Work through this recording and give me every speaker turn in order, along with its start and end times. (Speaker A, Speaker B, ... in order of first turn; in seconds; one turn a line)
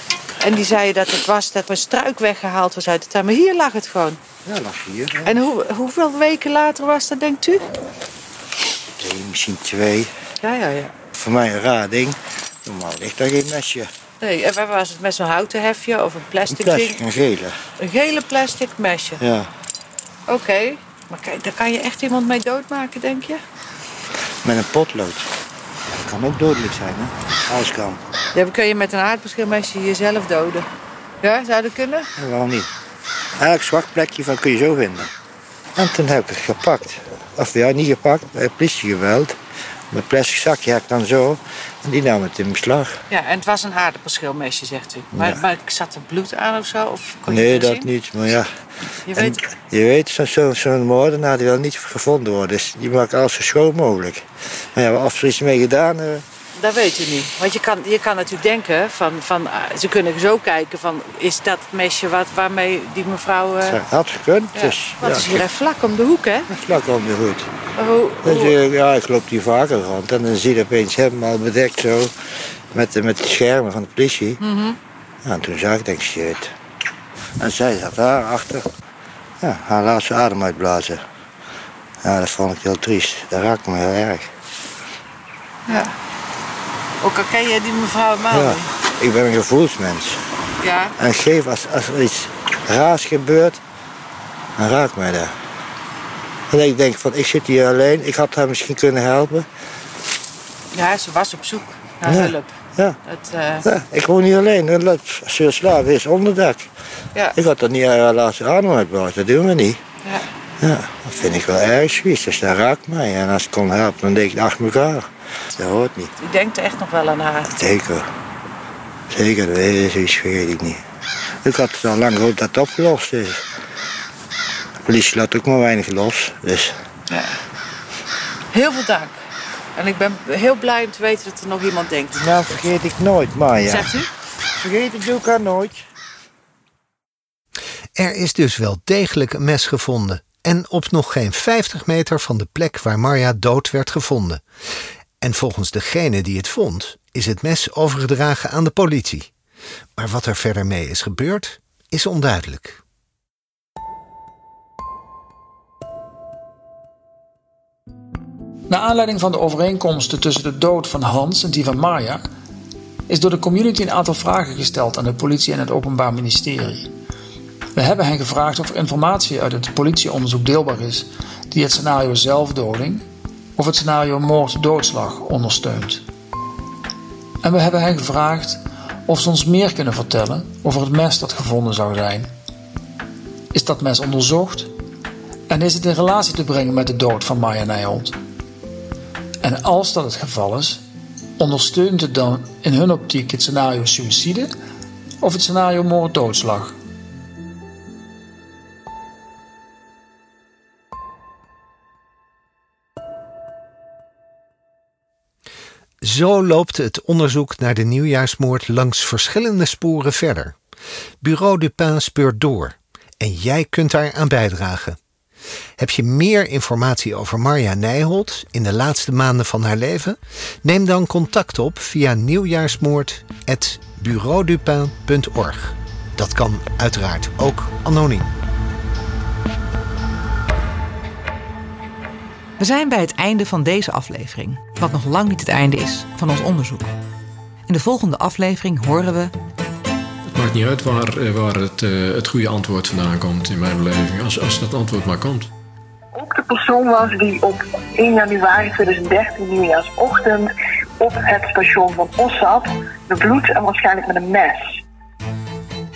Speaker A: 0.4-4.2
Speaker B: 4.5-5.4
Speaker A: 5.2-7.6
Speaker B: 9.0-10.1
Speaker A: 10.4-10.9
Speaker B: 11.1-13.9
Speaker A: 14.2-17.0
Speaker B: 16.5-17.5
Speaker A: 17.8-19.2
Speaker B: 19.2-19.5
Speaker A: 20.3-23.4
Speaker B: 24.4-25.2
Speaker B: 25.9-28.0
Speaker A: 28.3-30.7
Speaker A: 31.2-32.1
Speaker B: 32.2-32.7
Speaker B: 33.4-35.1
Speaker B: 35.8-39.3
Speaker B: 39.9-42.9
Speaker A: 43.1-47.9
Speaker B: 45.1-45.4
Speaker B: 47.2-48.5
Speaker A: 49.1-49.4
Speaker B: 49.1-56.2
Speaker A: 56.6-63.8
Speaker B: 63.6-65.5
Speaker A: 64.5-66.5
Speaker B: 66.5-67.5
Speaker A: 67.8-68.5
Speaker B: 68.2-72.1
Speaker B: 72.7-74.4
Speaker A: 74.4-74.8
Speaker B: 75.2-76.5
Speaker B: 77.4-78.6
Speaker B: 79.4-81.0
Speaker B: 82.0-84.3
Speaker A: 85.7-85.9
Speaker A: 87.0-88.7
Speaker B: 88.3-90.2
Speaker A: 90.6-90.9
Speaker B: 91.0-93.6
Speaker B: 94.6-95.3
Speaker B: 96.5-99.5
Speaker A: 100.7-102.5
Speaker B: 102.0-103.0
Speaker A: 103.0-103.6
Speaker B: 103.6-106.7
Speaker B: 107.3-109.8
Speaker B: 110.6-116.1
Speaker A: 116.2-117.5
Speaker B: 117.5-118.0
Speaker B: 119.1-120.8
Speaker B: 121.4-123.5
Speaker B: 124.8-126.7
Speaker A: 127.1-127.4
Speaker A: 128.5-129.2
Speaker A: 129.8-132.2
Speaker B: 132.1-133.9
Speaker A: 133.7-134.1
Speaker B: 134.6-135.8
Speaker C: 137.9-144.4
Speaker C: 145.2-149.3
Speaker C: 150.0-152.8
Speaker D: 158.7-162.2
Speaker D: 163.1-166.9
Speaker D: 167.7-173.0
Speaker D: 173.6-176.0
Speaker D: 177.4-182.3
Speaker D: 183.5-184.7
Speaker D: 185.5-188.2
Speaker D: 189.4-190.8
Speaker D: 191.4-194.5
Speaker D: 195.2-196.8
Speaker C: 206.0-210.6
Speaker C: 211.2-215.0
Speaker C: 215.8-228.3
Speaker E: 232.6-236.9
Speaker E: 237.7-239.3
Speaker F: 240.3-245.5
Speaker G: 246.1-254.8